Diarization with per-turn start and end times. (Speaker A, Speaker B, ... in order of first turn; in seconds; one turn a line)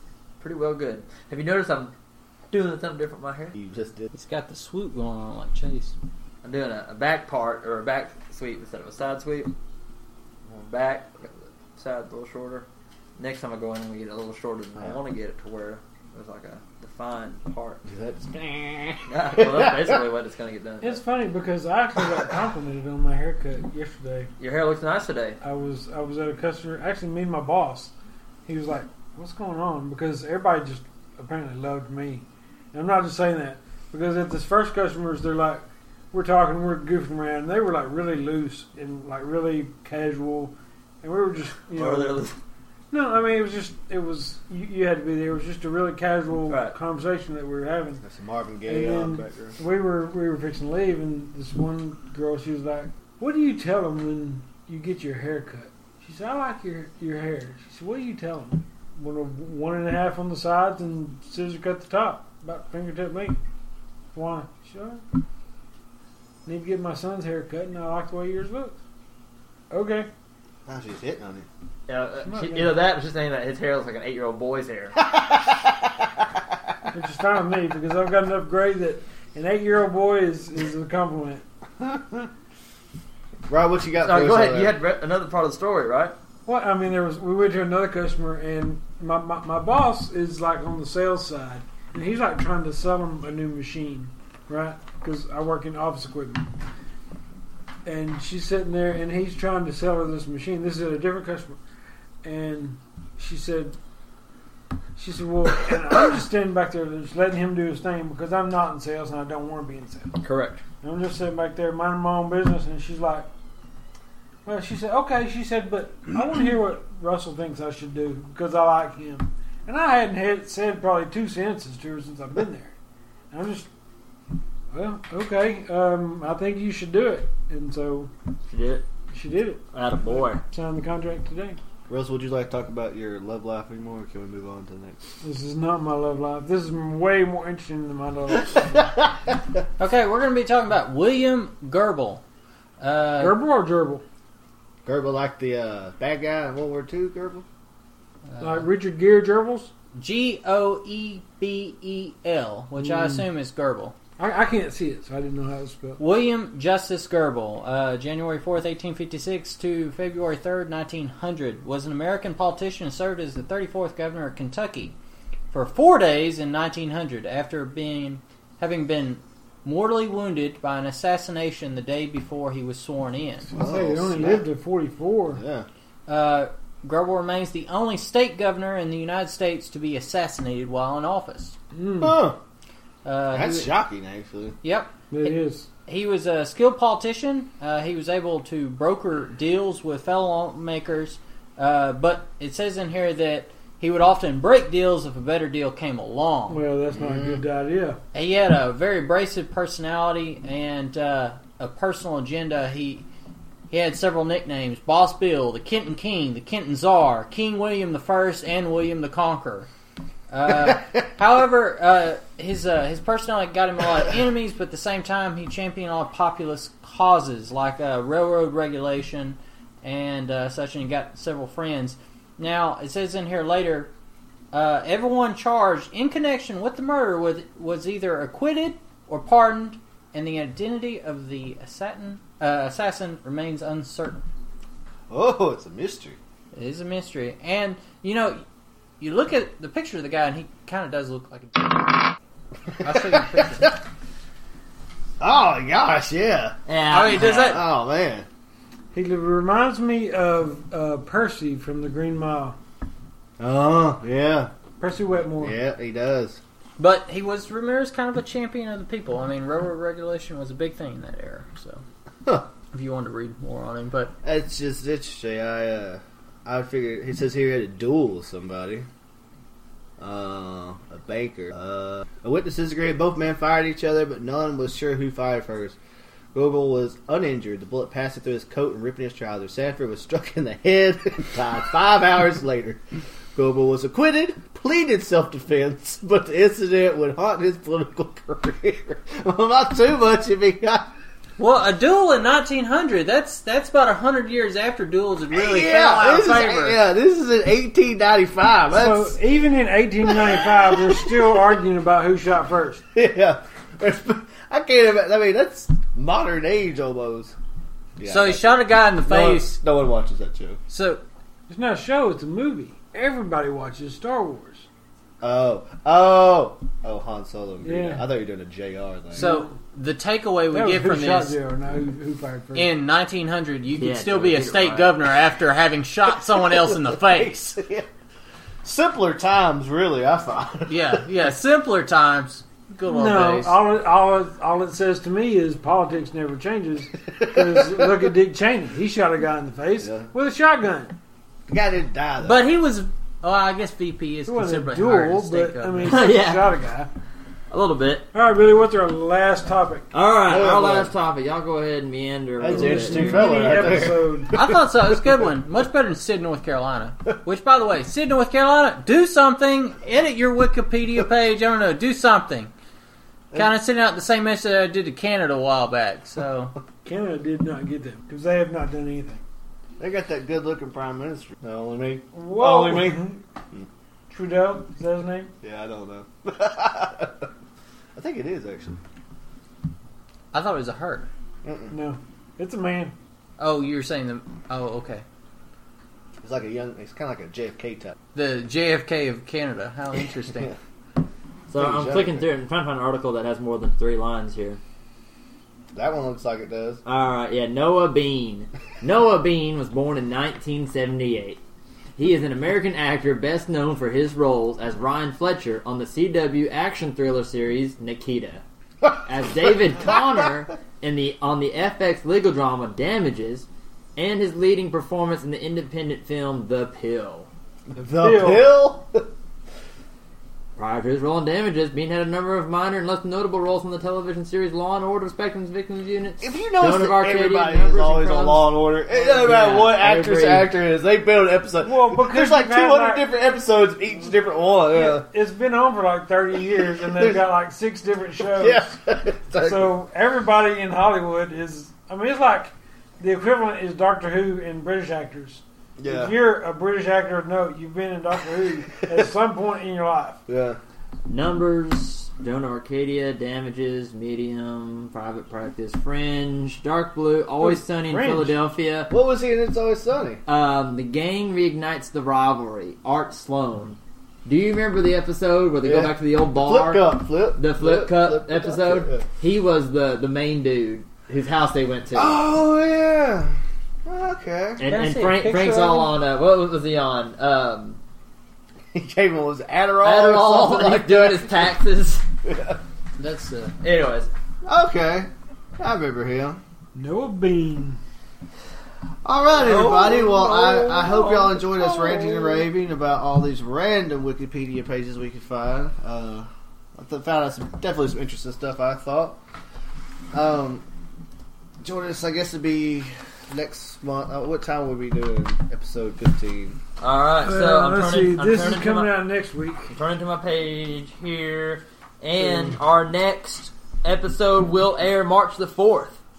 Speaker A: 0.4-1.9
Speaker A: 2.5-3.5
Speaker B: 3.5-4.1
Speaker C: 4.1-5.9
Speaker A: 6.4-9.5
Speaker A: 10.5-12.7
Speaker A: 13.2-17.8
Speaker B: 17.9-20.0
Speaker A: 19.1-21.0
Speaker D: 20.8-24.3
Speaker A: 24.4-25.4
Speaker D: 25.4-27.9
Speaker D: 28.4-42.2
Speaker A: 41.7-42.4
Speaker D: 42.9-48.0
Speaker A: 46.5-46.7
Speaker B: 48.0-49.6
Speaker D: 48.7-63.4
Speaker D: 64.1-65.0
Speaker D: 66.5-68.8
Speaker D: 69.7-70.1
Speaker B: 70.7-71.5
Speaker A: 71.9-75.0
Speaker D: 72.2-72.7
Speaker B: 75.0-76.2
Speaker D: 76.9-81.4
Speaker B: 81.8-82.3
Speaker B: 83.5-84.8
Speaker A: 84.0-86.1
Speaker D: 86.5-96.5
Speaker D: 97.8-101.6
Speaker D: 102.2-103.8
Speaker D: 105.0-110.1
Speaker A: 110.2-110.6
Speaker D: 110.8-113.3
Speaker D: 114.4-122.7
Speaker D: 123.3-123.7
Speaker D: 124.7-128.1
Speaker A: 128.5-128.8
Speaker D: 129.1-129.6
Speaker A: 129.7-130.4
Speaker D: 130.4-131.6
Speaker B: 131.9-135.0
Speaker D: 135.2-138.9
Speaker B: 139.0-139.3
Speaker C: 139.8-142.2
Speaker C: 142.8-143.4
Speaker D: 143.2-144.0
Speaker B: 144.8-147.4
Speaker C: 148.3-148.6
Speaker D: 148.4-149.7
Speaker C: 149.9-153.9
Speaker D: 152.8-153.2
Speaker D: 154.2-156.0
Speaker C: 156.0-164.9
Speaker C: 165.5-173.6
Speaker D: 173.5-175.4
Speaker B: 173.5-174.4
Speaker B: 175.3-175.7
Speaker C: 176.1-181.6
Speaker D: 181.7-182.2
Speaker B: 182.0-182.4
Speaker C: 183.0-183.7
Speaker B: 183.3-184.6
Speaker C: 184.6-196.6
Speaker D: 185.1-185.7
Speaker D: 196.5-198.0
Speaker B: 197.0-197.4
Speaker C: 198.1-203.0
Speaker C: 203.7-209.7
Speaker C: 210.3-223.9
Speaker C: 224.5-234.2
Speaker B: 235.1-236.2
Speaker C: 236.5-238.4
Speaker C: 239.0-242.1
Speaker C: 242.8-243.7
Speaker B: 242.8-243.8
Speaker B: 245.2-248.2
Speaker A: 246.7-247.6
Speaker C: 246.9-247.6
Speaker D: 248.9-252.6
Speaker B: 253.4-254.5
Speaker D: 254.8-255.6
Speaker B: 255.4-256.4
Speaker C: 256.8-261.8
Speaker C: 262.7-264.1
Speaker B: 264.2-268.9
Speaker B: 270.0-275.8
Speaker B: 276.3-282.8
Speaker B: 283.3-290.9
Speaker C: 291.4-296.8
Speaker B: 295.3-299.2
Speaker D: 298.7-302.8
Speaker B: 300.1-301.3
Speaker B: 302.9-307.3
Speaker B: 308.0-310.6
Speaker C: 308.0-309.6
Speaker C: 310.7-311.0
Speaker D: 311.5-314.7
Speaker B: 315.2-319.3
Speaker D: 317.6-318.0
Speaker D: 319.1-319.5
Speaker C: 319.1-321.4
Speaker D: 320.5-322.7
Speaker C: 322.5-327.6
Speaker A: 323.8-324.9
Speaker B: 326.3-327.8
Speaker B: 328.6-331.0
Speaker C: 330.7-333.6
Speaker D: 332.9-340.9
Speaker B: 337.2-337.8
Speaker B: 339.8-340.1
Speaker B: 341.5-342.5
Speaker C: 342.2-346.0
Speaker D: 344.2-346.9
Speaker A: 345.8-346.5
Speaker A: 347.5-348.1
Speaker D: 348.1-349.9
Speaker A: 349.9-353.7
Speaker B: 350.3-350.9
Speaker B: 352.4-354.6
Speaker D: 352.5-354.3
Speaker C: 354.3-362.5
Speaker C: 363.3-366.5
Speaker D: 366.8-369.2
Speaker B: 369.8-373.6
Speaker D: 372.1-373.2
Speaker D: 374.1-375.3
Speaker B: 375.4-377.3
Speaker B: 377.9-378.8
Speaker C: 380.3-381.1
Speaker B: 381.4-381.7
Speaker D: 381.7-382.9
Speaker C: 383.4-385.0
Speaker B: 386.2-387.9
Speaker C: 388.1-390.5
Speaker A: 391.5-394.6
Speaker B: 391.6-392.3
Speaker B: 395.7-396.8
Speaker A: 396.9-401.4
Speaker A: 402.0-408.4
Speaker A: 409.0-417.3
Speaker B: 417.7-419.1
Speaker D: 417.9-418.5
Speaker A: 420.6-430.5
Speaker B: 426.2-435.1
Speaker D: 431.6-433.1
Speaker D: 434.7-438.7
Speaker B: 436.8-437.3
Speaker B: 438.3-439.7
Speaker D: 439.3-450.2
Speaker B: 445.8-446.1
Speaker B: 450.3-450.6
Speaker A: 451.1-458.9
Speaker D: 457.4-458.3
Speaker B: 458.9-460.2
Speaker A: 460.2-472.2
Speaker B: 465.6-469.0
Speaker B: 471.9-474.6
Speaker A: 474.6-477.8
Speaker C: 474.6-475.9
Speaker B: 478.7-481.5
Speaker A: 479.8-482.0
Speaker B: 482.2-482.6
Speaker C: 483.0-483.5
Speaker A: 483.6-484.1
Speaker B: 484.4-486.4
Speaker D: 486.7-487.8
Speaker B: 489.0-499.2
Speaker A: 489.3-492.3
Speaker B: 500.1-500.6
Speaker B: 501.6-506.6
Speaker A: 506.8-508.9
Speaker D: 507.2-509.7
Speaker A: 509.7-516.0